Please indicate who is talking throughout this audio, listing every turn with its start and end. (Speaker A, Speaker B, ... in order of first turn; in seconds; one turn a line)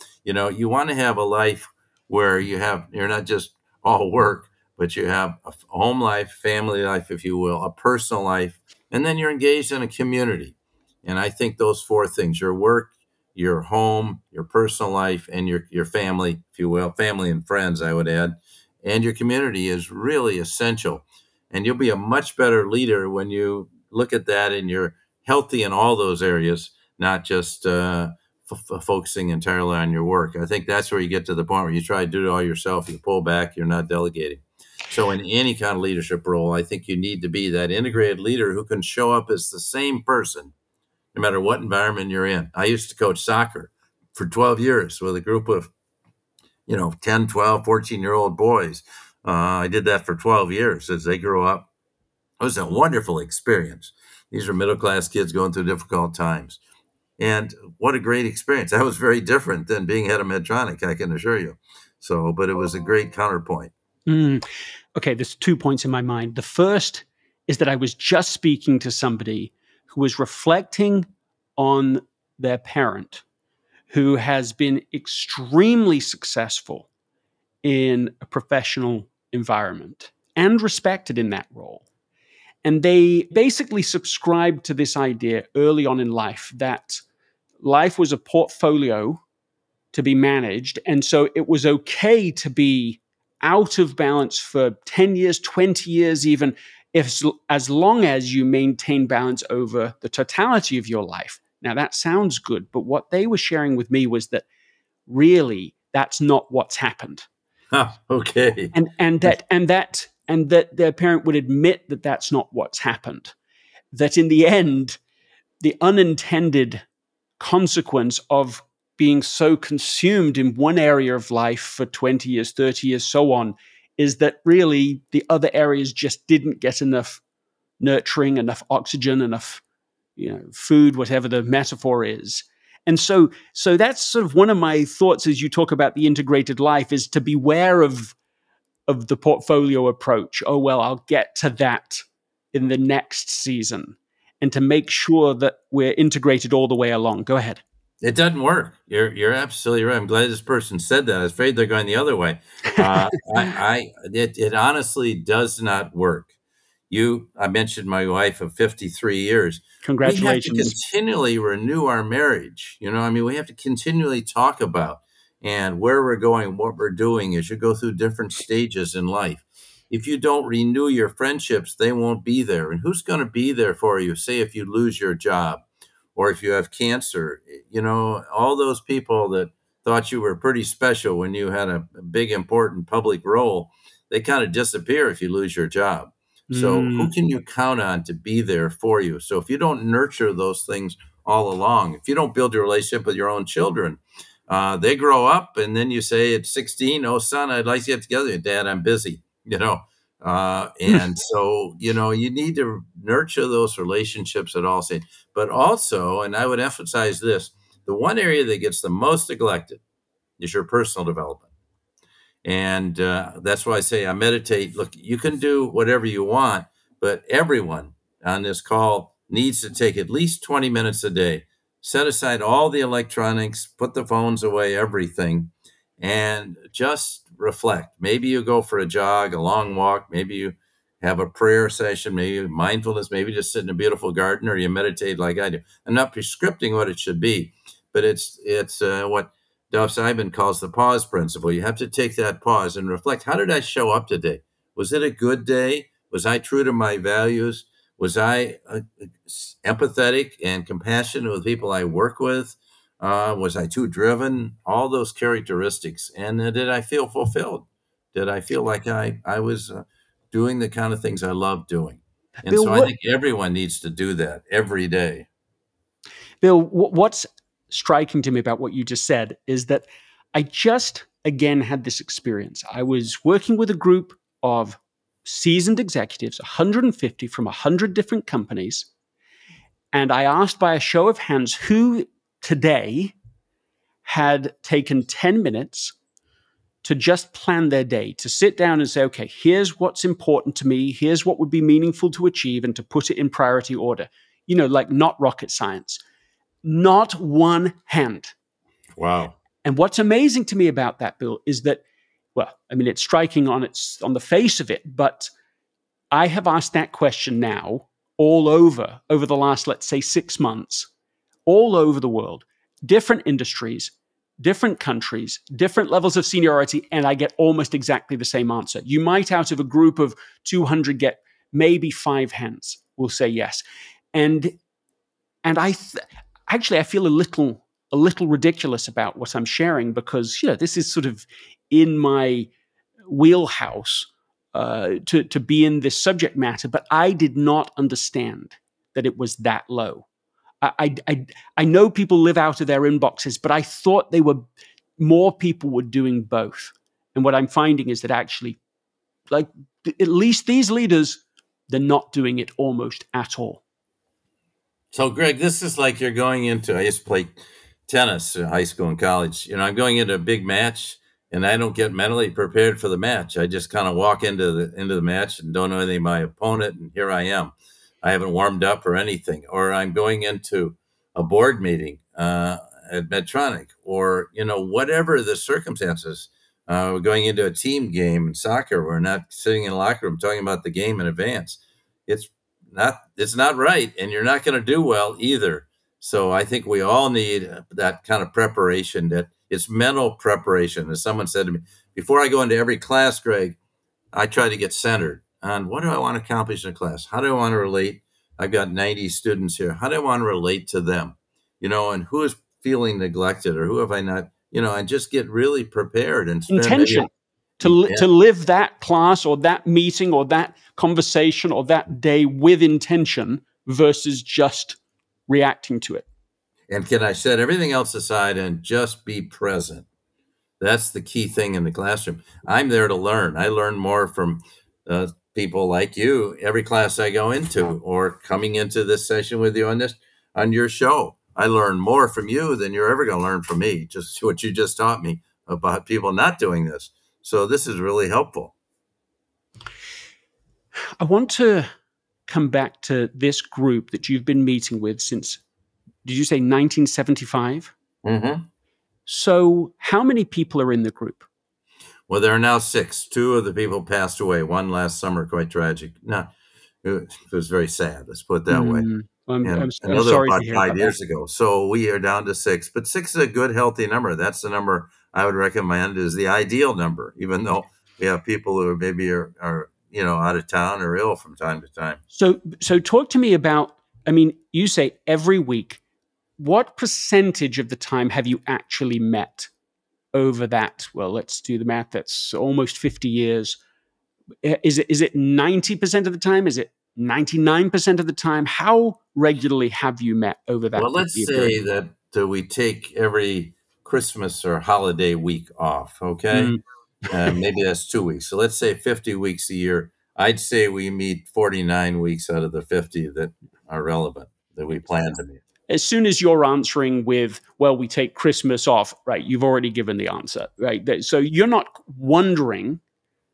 Speaker A: 0.2-40.5
Speaker A: 41.1-45.7
Speaker A: 46.7-51.7
Speaker A: 52.4-56.6
Speaker A: 57.2-63.7
Speaker B: 64.1-64.4
Speaker B: 64.9-73.2
Speaker B: 73.9-76.9
Speaker B: 77.6-81.8
Speaker B: 82.6-87.0
Speaker B: 87.6-89.2
Speaker B: 89.9-104.4
Speaker B: 105.1-107.3
Speaker A: 107.7-108.7
Speaker B: 108.7-113.3
Speaker B: 113.9-115.0
Speaker B: 115.6-116.8
Speaker B: 117.4-127.2
Speaker B: 127.8-129.6
Speaker B: 130.2-138.1
Speaker B: 138.9-147.6
Speaker A: 148.0-156.3
Speaker B: 152.9-153.1
Speaker A: 156.9-175.6
Speaker B: 159.8-160.8
Speaker A: 176.1-209.8
Speaker B: 186.5-187.1
Speaker A: 210.4-211.5
Speaker A: 212.4-265.3
Speaker B: 262.4-262.9
Speaker B: 266.4-278.9
Speaker B: 279.9-283.1
Speaker B: 284.0-285.9
Speaker B: 286.8-296.0
Speaker B: 296.6-298.3
Speaker A: 298.9-299.4
Speaker B: 299.6-301.8
Speaker B: 302.3-305.3
Speaker B: 306.1-310.9
Speaker B: 311.4-324.6
Speaker B: 325.4-332.5
Speaker B: 333.1-340.0
Speaker B: 340.6-348.6
Speaker B: 349.3-353.6
Speaker A: 354.9-393.6
Speaker A: 394.1-407.1
Speaker B: 406.5-416.0
Speaker A: 407.6-408.1
Speaker A: 416.7-419.9
Speaker A: 420.6-438.5
Speaker B: 441.0-441.7
Speaker B: 442.3-445.4
Speaker B: 446.0-447.7
Speaker A: 448.0-448.5
Speaker B: 449.1-451.3
Speaker A: 452.1-456.3
Speaker A: 456.8-458.9
Speaker B: 458.5-460.9
Speaker A: 459.4-472.0
Speaker B: 472.1-475.8
Speaker B: 476.4-479.5
Speaker B: 480.1-483.6
Speaker B: 484.4-491.6
Speaker A: 490.8-496.5
Speaker B: 496.3-496.6
Speaker A: 497.1-505.4
Speaker B: 505.7-512.8